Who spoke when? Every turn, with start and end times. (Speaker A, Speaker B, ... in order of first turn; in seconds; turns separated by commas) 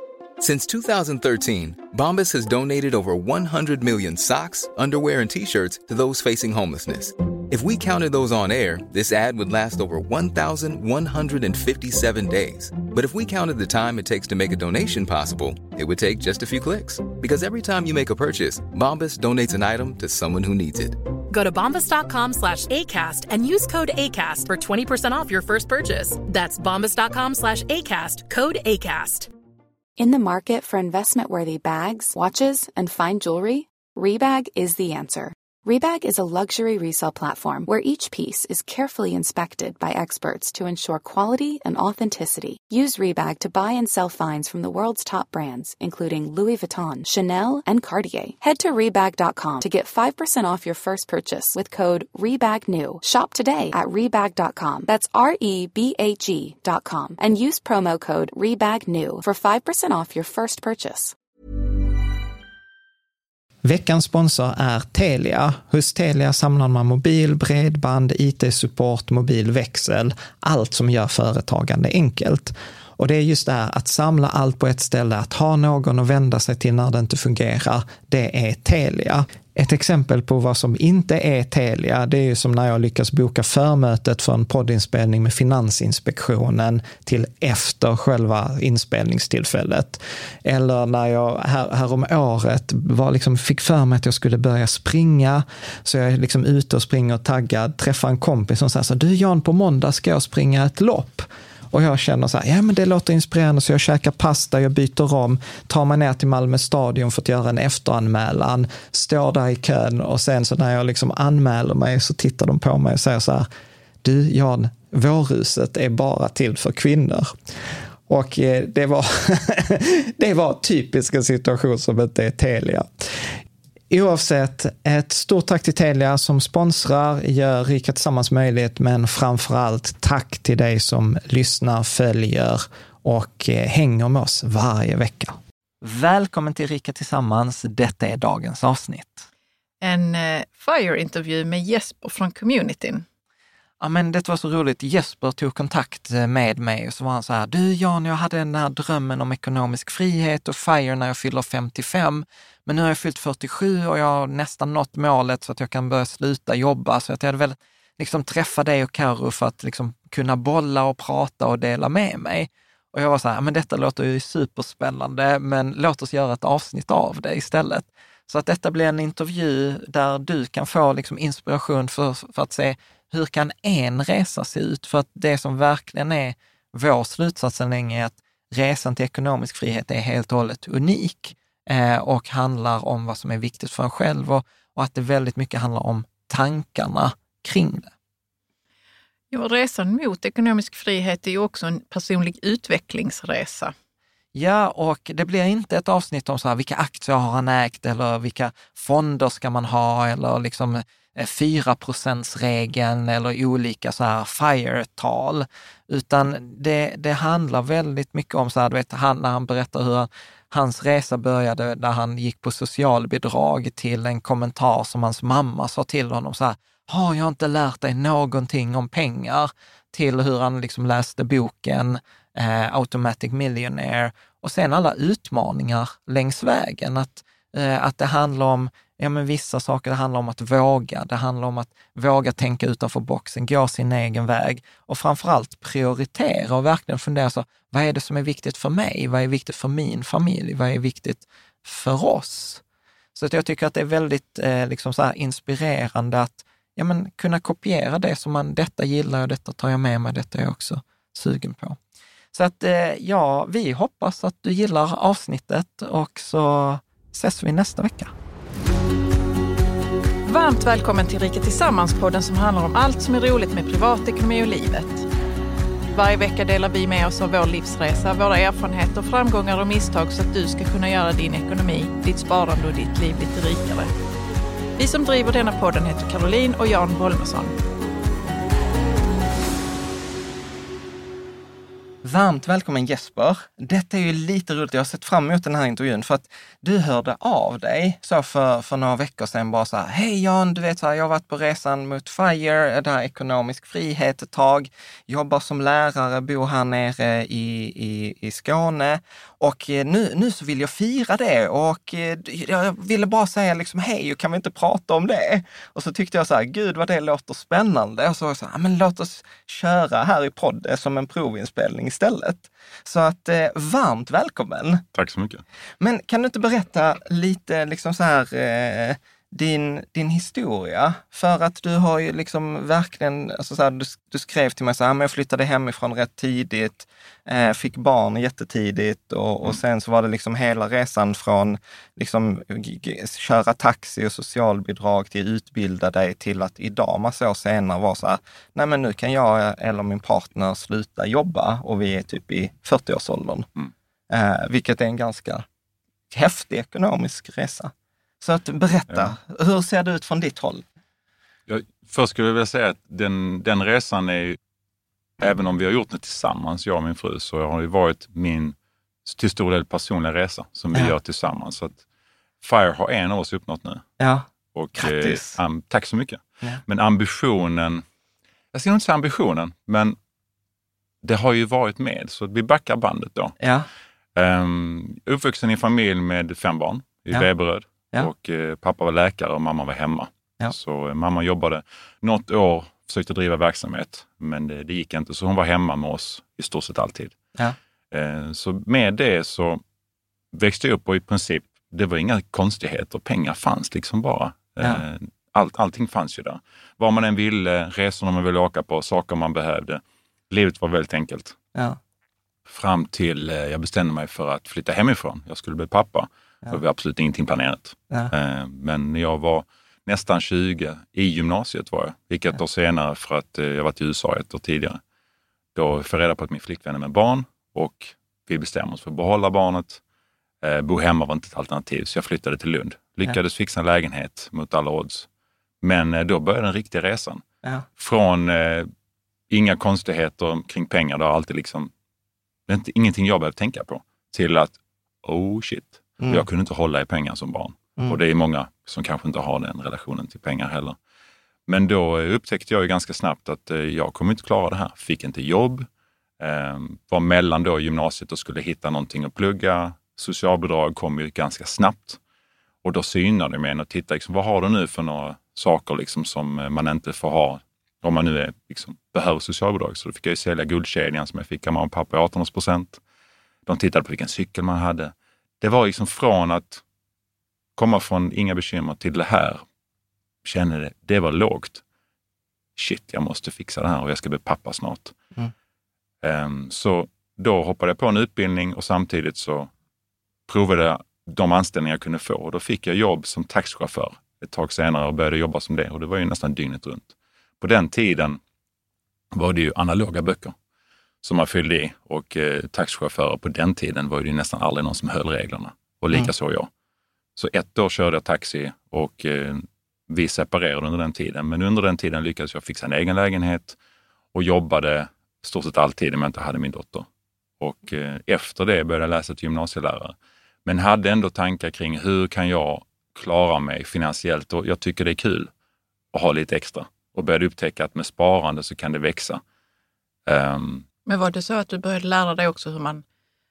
Speaker A: 0.4-21.0, Speaker B: 21.3-29.3, Speaker C: 30.0-61.2, Speaker D: 63.6-113.5, Speaker D: 114.0-117.4, Speaker D: 118.1-123.4, Speaker D: 123.9-139.3, Speaker E: 139.8-143.1, Speaker D: 143.8-187.9, Speaker E: 189.3-193.7, Speaker D: 194.3-242.6, Speaker D: 243.2-251.8, Speaker D: 252.3-258.1, Speaker E: 260.3-265.1, Speaker E: 265.9-273.9, Speaker E: 274.8-277.6, Speaker D: 282.0-314.8, Speaker F: 314.9-315.4, Speaker D: 315.8-343.5, Speaker D: 344.1-345.5, Speaker D: 346.1-350.6, Speaker F: 348.9-349.1, Speaker F: 351.5-354.4, Speaker F: 355.2-361.8, Speaker F: 362.4-363.9, Speaker D: 364.0-364.3, Speaker F: 364.5-367.8, Speaker D: 364.8-365.4, Speaker F: 368.5-370.0, Speaker F: 371.0-373.4, Speaker D: 373.4-373.7, Speaker F: 374.2-387.1, Speaker F: 387.9-389.6, Speaker F: 390.3-401.4, Speaker F: 402.5-414.8, Speaker F: 415.6-419.8, Speaker F: 420.4-425.1, Speaker F: 425.6-427.2, Speaker F: 427.8-428.7, Speaker F: 429.3-431.7, Speaker F: 432.5-440.8, Speaker D: 436.0-436.3, Speaker F: 441.5-445.7, Speaker F: 446.2-452.0, Speaker F: 452.6-462.8, Speaker F: 463.5-466.6, Speaker F: 467.6-469.4, Speaker F: 470.2-471.6, Speaker F: 472.6-474.9, Speaker F: 476.0-479.5, Speaker F: 480.3-488.2, Speaker F: 489.1-490.4, Speaker F: 491.0-496.5, Speaker F: 497.2-503.6, Speaker F: 504.1-506.9, Speaker F: 507.4-515.3, Speaker F: 515.9-519.2, Speaker F: 520.1-520.7, Speaker E: 520.9-522.8